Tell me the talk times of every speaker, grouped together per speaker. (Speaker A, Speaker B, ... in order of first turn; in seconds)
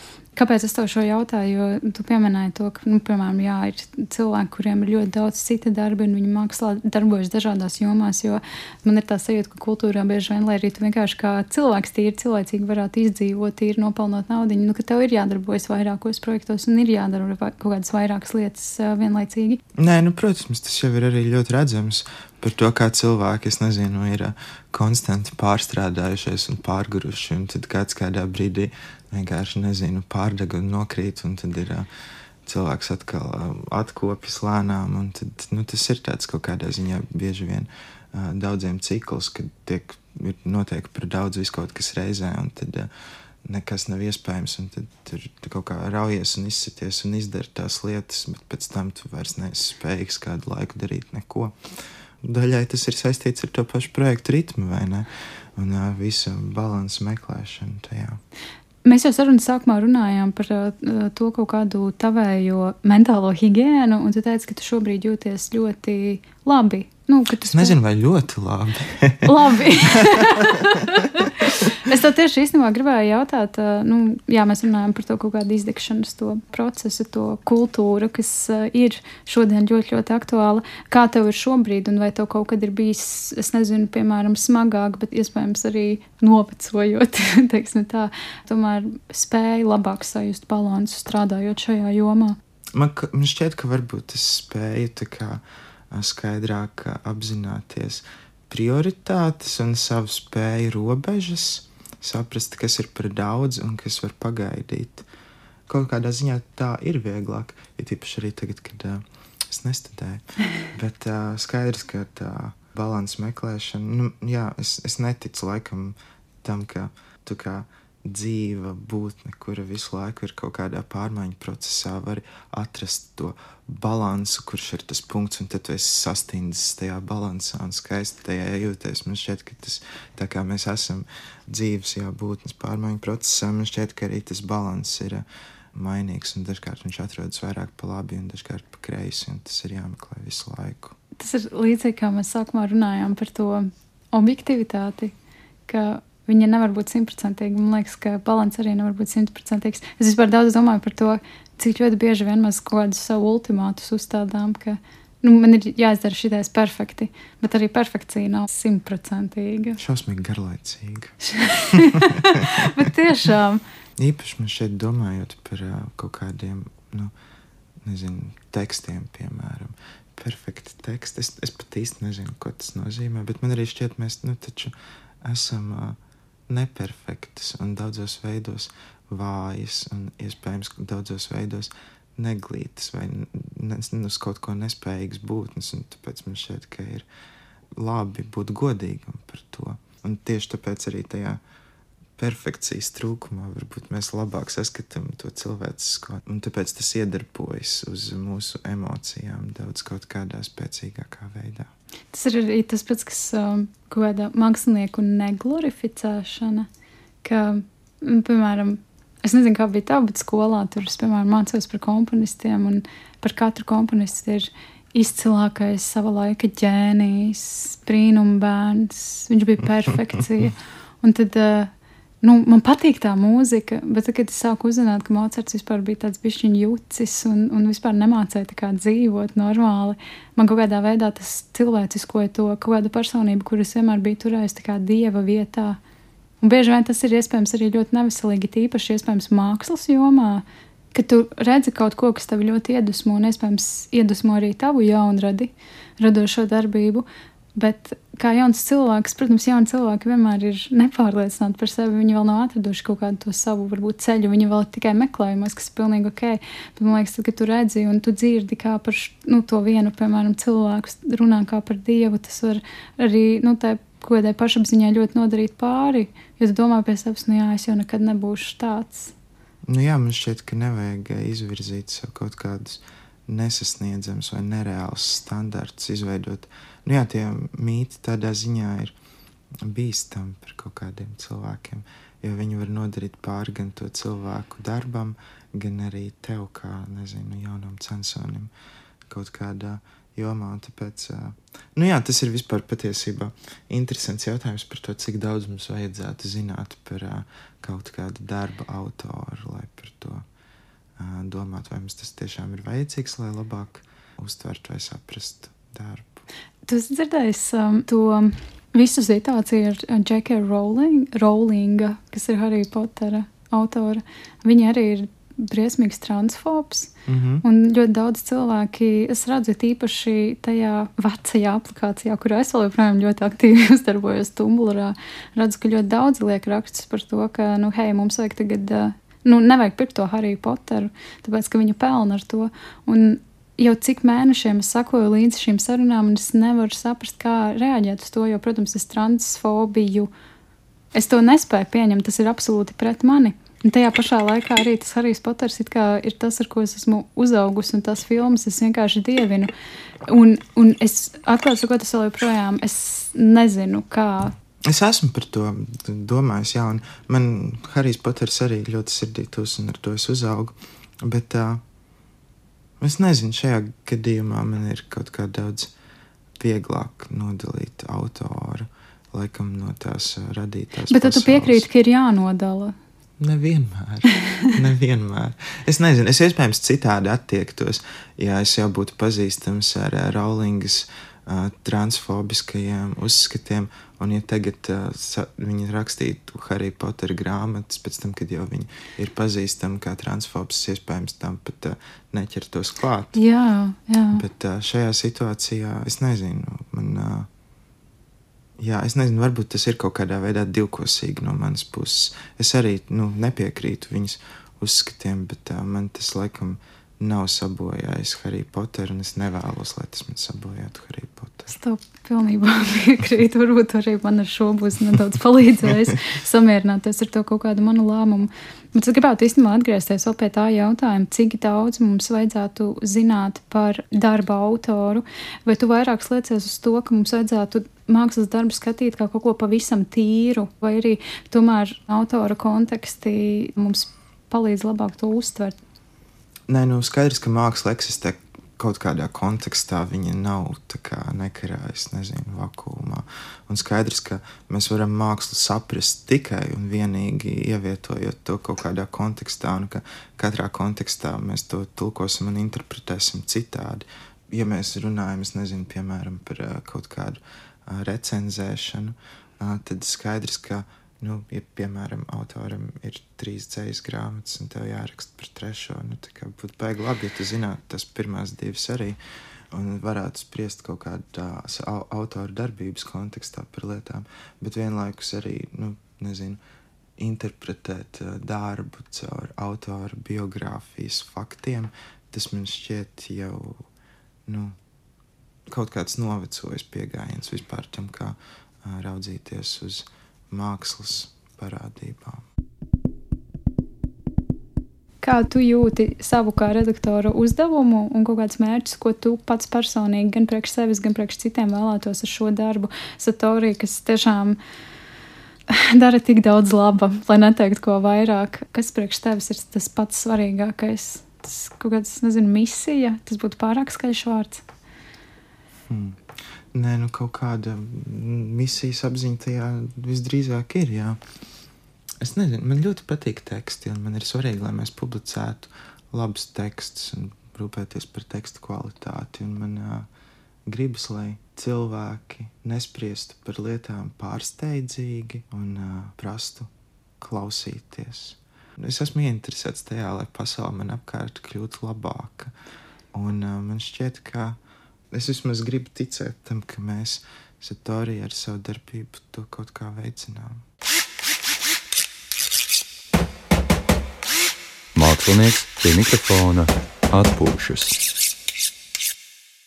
Speaker A: 0.3-19.6, 58.8-67.8, 69.2-92.4, 141.2-145.1, 145.7-159.8, 161.3-163.6, 202.1-206.7, 207.2-221.7, 222.2-235.8, 236.4-269.1, 306.7-316.9, 317.4-340.1, 340.9-349.5, 350.1-354.4, 370.9-372.8, 393.1-394.2, 411.5-435.6, 495.0-504.4, 505.5-514.4
Speaker B: 19.8-31.9, 32.4-42.9, 43.4-51.5, 52.2-58.2, 67.5-70.5, 92.7-105.0, 105.7-140.9, 159.8-162.7, 164.0-167.1, 167.8-176.0, 176.5-187.1, 187.8-191.4, 192.2-201.7, 269.7-278.9, 279.6-288.5, 289.1-300.2, 301.0-306.2, 317.1-317.4, 354.6-361.6, 362.8-365.7, 366.4-371.7, 373.2-393.2, 394.1-397.3, 398.6-411.5, 436.5-469.0, 469.5-476.4, 477.0-483.6, 484.3-484.6, 485.5-492.2, 515.7-516.0, 516.5-521.0, 522.0-529.9, 530.5-542.3, 542.9-544.4, 544.9-550.4
Speaker C: 554.7-557.8